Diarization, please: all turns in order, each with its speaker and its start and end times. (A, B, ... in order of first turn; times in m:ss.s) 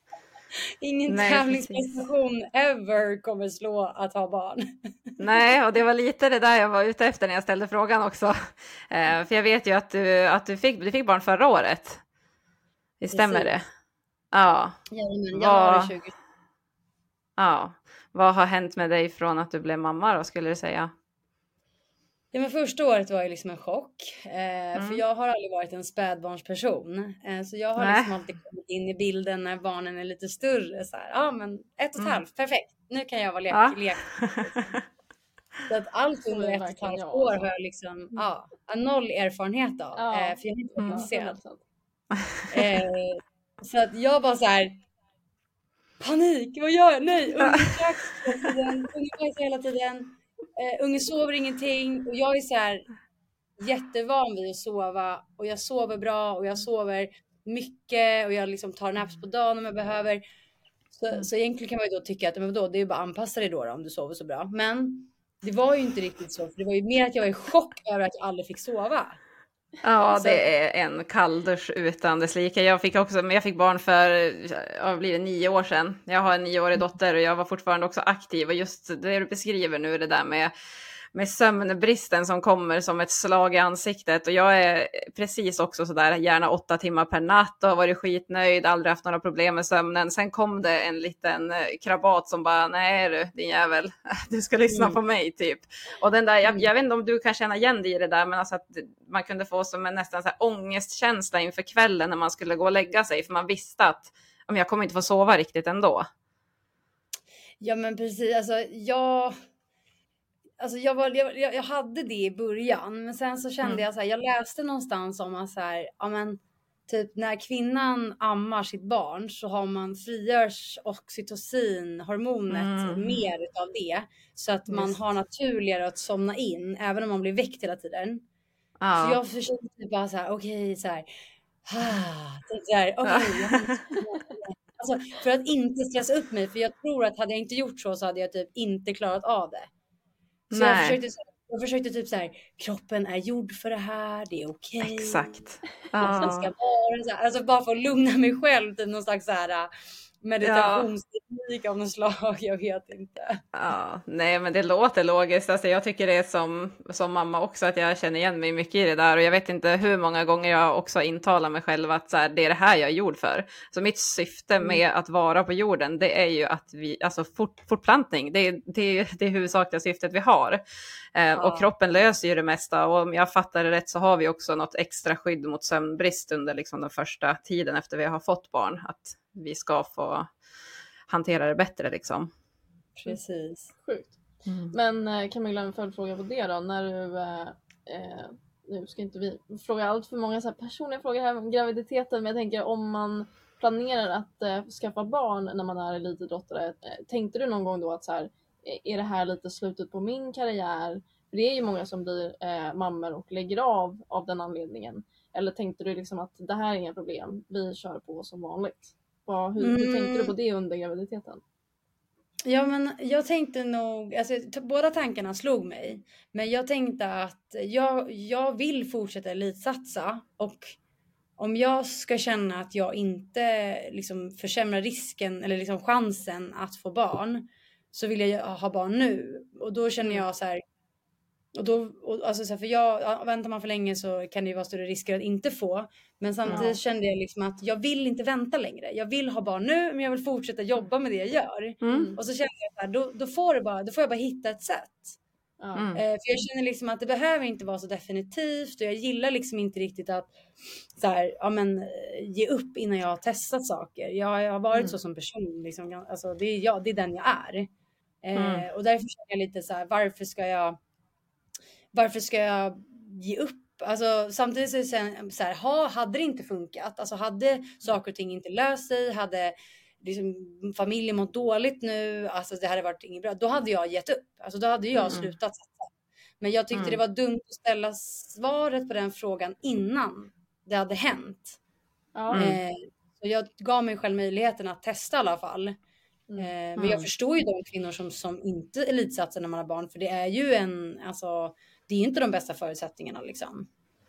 0:00.8-0:04.7 A
0:01.1-0:02.0 B
0:05.2-0:12.0 B
0:13.0-0:13.7 B
0:13.1-0:13.6 A
0:14.3-0:14.8 B
0:14.9-0:16.1 A
0:15.3-0:15.9 B
0:17.4-0:20.9 B
0:22.3-0:34.7 A
0:24.8-0:25.0 B
0:27.8-0:28.1 B
0:33.5-0:34.5 B
0:35.7-0:41.4 A
0:36.3-0:37.4 C
0:40.0-0:41.6 C
0:40.8-0:41.1 B
0:42.1-0:42.4 B
0:42.5-0:44.8 A
0:46.0-0:52.8 A
0:53.6-1:00.2 A
1:00.9-1:09.2 A
1:09.8-1:20.5 B
1:10.2-1:10.4 A
1:21.1-1:46.1 B
1:34.7-1:35.0 A
1:47.6-1:49.4 A
1:50.6-2:08.2 A
2:02.5-2:03.2 B
2:08.8-2:09.2 B
2:09.0-2:11.1 A
2:11.6-2:19.7 A
2:13.0-2:13.8 B
2:20.5-2:21.0 B
2:20.5-2:25.3 A
2:24.8-2:26.5 B
2:26.0-2:29.7 A
2:30.2-2:33.4 A
2:30.4-2:30.9 B
2:33.5-2:50.6 B
2:51.2-3:00.3 B
2:51.4-2:51.7 A
3:01.1-3:02.3 B
3:03.0-3:03.7 A
3:03.8-3:04.2 C
3:04.5-3:04.7 B
3:04.7-3:31.4 C
3:29.6-3:30.3 A
3:32.4-3:40.8 A
3:41.4-3:50.6 A
3:51.6-4:05.2 A
3:56.5-3:56.8 C
4:01.8-4:02.1 B
4:01.9-4:02.2 C
4:05.6-4:05.9 C
4:05.8-4:06.0 B
4:06.0-4:10.3 A
4:11.0-4:17.7 A
4:18.2-4:20.8 A
4:18.4-4:18.7 B
4:21.9-4:35.9 A
4:36.4-4:41.6 A
4:36.7-4:37.0 B
4:42.2-4:42.4 C
4:42.3-4:42.6 B
4:42.4-4:45.8 A
4:46.4-4:53.7 A
4:46.8-4:47.1 B